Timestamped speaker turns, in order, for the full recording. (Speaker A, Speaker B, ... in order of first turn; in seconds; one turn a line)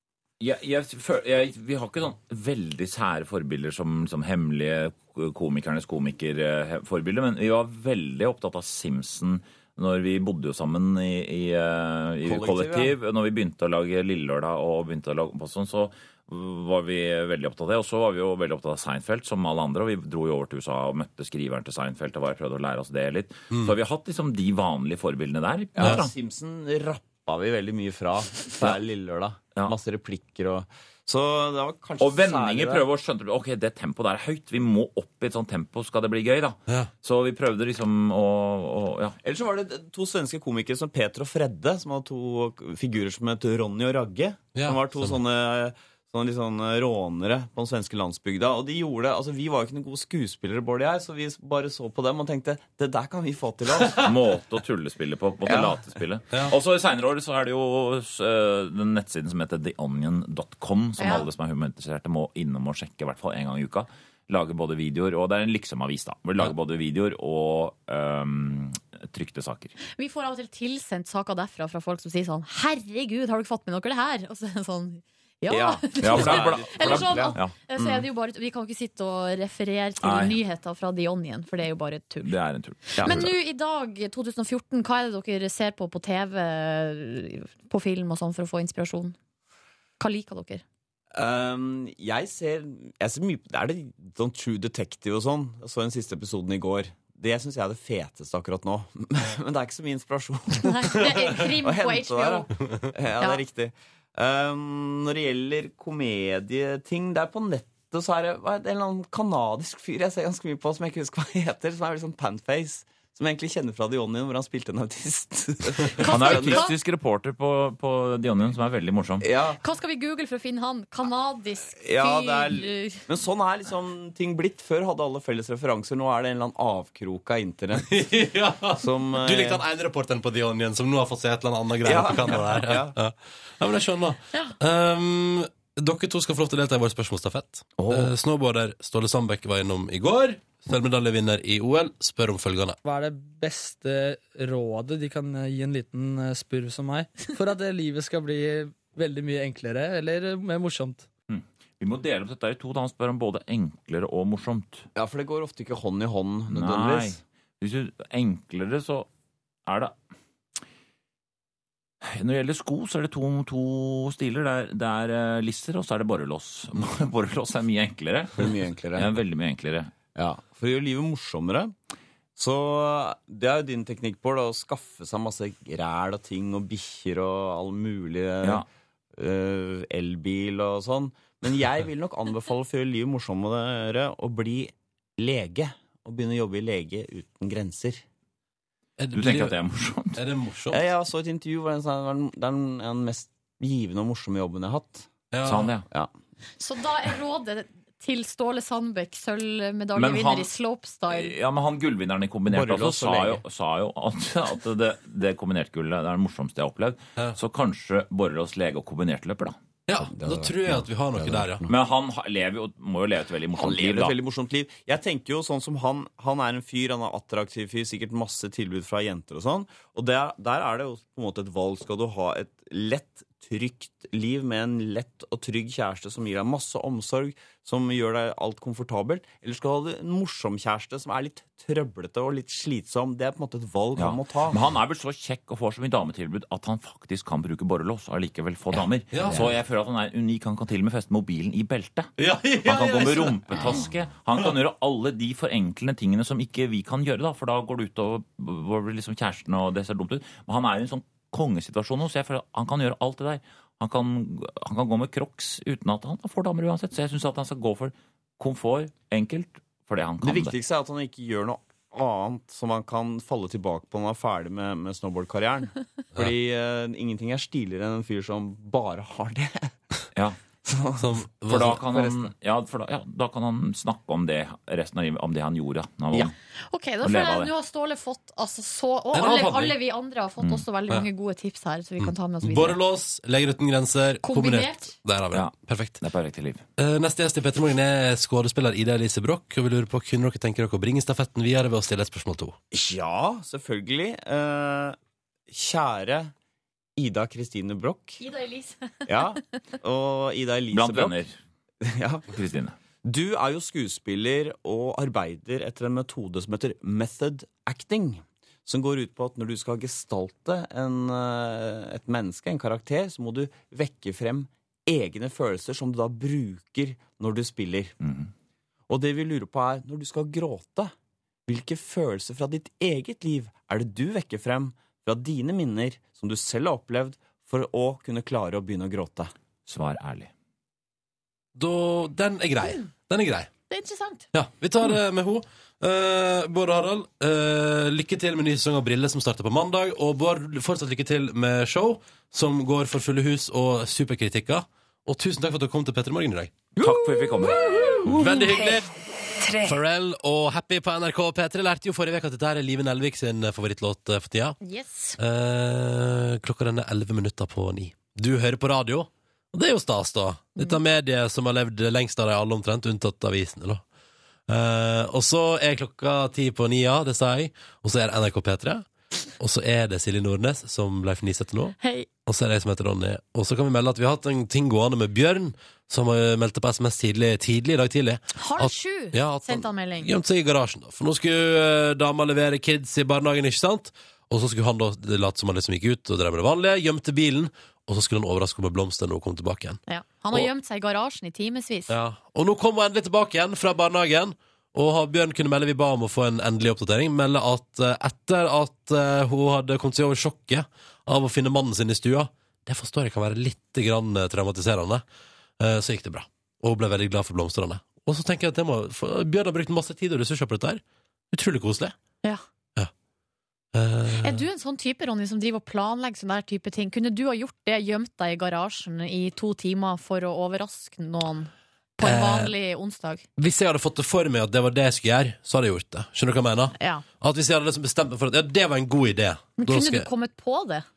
Speaker A: 0.4-26.1
Speaker B: 12.2-12.9
Speaker B: 25.7-32.9
Speaker A: 32.0-39.2
Speaker B: 39.2-54.0
Speaker C: 44.5-45.2
Speaker A: 53.9-69.7
Speaker B: 55.5-55.8
Speaker D: 61.0-61.2
Speaker D: 70.0-82.3
Speaker B: 75.5-78.0
Speaker A: 75.9-77.6
Speaker A: 80.0-80.4
Speaker A: 82.2-83.3
Speaker B: 83.0-83.2
Speaker D: 83.0-89.2
Speaker D: 90.0-90.6
Speaker B: 91.1-116.7
Speaker D: 100.5-102.5
Speaker A: 115.9-119.2
Speaker D: 116.0-116.7
Speaker B: 119.2-119.6
Speaker D: 119.6-123.0
Speaker B: 121.8-128.0
Speaker C: 127.8-142.8
Speaker B: 128.7-129.6
Speaker B: 131.8-132.9
Speaker E: 142.8-151.1
Speaker A: 151.3-154.9
Speaker B: 154.9-157.2
Speaker A: 156.5-159.1
Speaker A: 159.7-159.9
Speaker A: 162.0-169.9
Speaker B: 168.4-169.1
Speaker B: 170.1-171.7
Speaker B: 172.3-178.6
Speaker B: 179.2-188.0
Speaker C: 189.0-189.6
Speaker A: 189.1-190.2
Speaker C: 190.2-190.8
Speaker B: 190.7-195.1
Speaker C: 195.3-195.7
Speaker A: 195.4-195.8
Speaker D: 196.6-201.4
Speaker A: 199.9-200.5
Speaker A: 201.1-209.6
Speaker B: 202.5-203.4
Speaker C: 209.9-211.6
Speaker B: 210.1-210.7
Speaker A: 211.6-214.2
Speaker B: 213.5-234.6
Speaker A: 233.9-260.6
Speaker C: 239.1-239.5
Speaker C: 242.2-243.9
Speaker B: 260.2-269.8
Speaker B: 270.6-271.1
Speaker C: 271.0-271.8
Speaker A: 271.5-276.3
Speaker B: 271.7-272.3
Speaker D: 276.7-282.8
Speaker A: 277.0-277.5
Speaker C: 279.1-279.7
Speaker A: 280.4-280.6
Speaker C: 282.4-286.0
Speaker D: 284.2-284.9
Speaker A: 285.3-286.6
Speaker C: 286.8-292.6
Speaker B: 292.7-295.0
Speaker B: 295.5-296.3
Speaker B: 296.9-298.2
Speaker D: 298.2-299.2
Speaker B: 299.1-301.2
Speaker A: 300.7-301.3
Speaker B: 301.8-302.3
Speaker A: 302.3-302.8
Speaker B: 303.0-317.9
Speaker A: 318.0-318.3
Speaker B: 318.9-320.9
Speaker B: 321.5-329.3
Speaker A: 329.7-330.3
Speaker C: 331.6-333.5
Speaker D: 333.7-334.2
Speaker C: 334.3-346.6
Speaker A: 346.8-348.0
Speaker B: 346.8-348.2
Speaker C: 348.0-348.9
Speaker C: 349.6-354.6
Speaker D: 354.6-355.2
Speaker C: 355.2-363.8
Speaker C: 364.5-368.9
Speaker C: 369.4-389.8
Speaker D: 371.8-372.1
Speaker D: 378.4-380.1
Speaker D: 389.9-391.9
Speaker C: 391.9-405.0
Speaker C: 405.6-411.9
Speaker C: 413.7-414.4
Speaker D: 414.2-423.2
Speaker C: 422.0-422.5
Speaker C: 423.4-430.1
Speaker D: 426.8-427.0
Speaker D: 429.6-430.9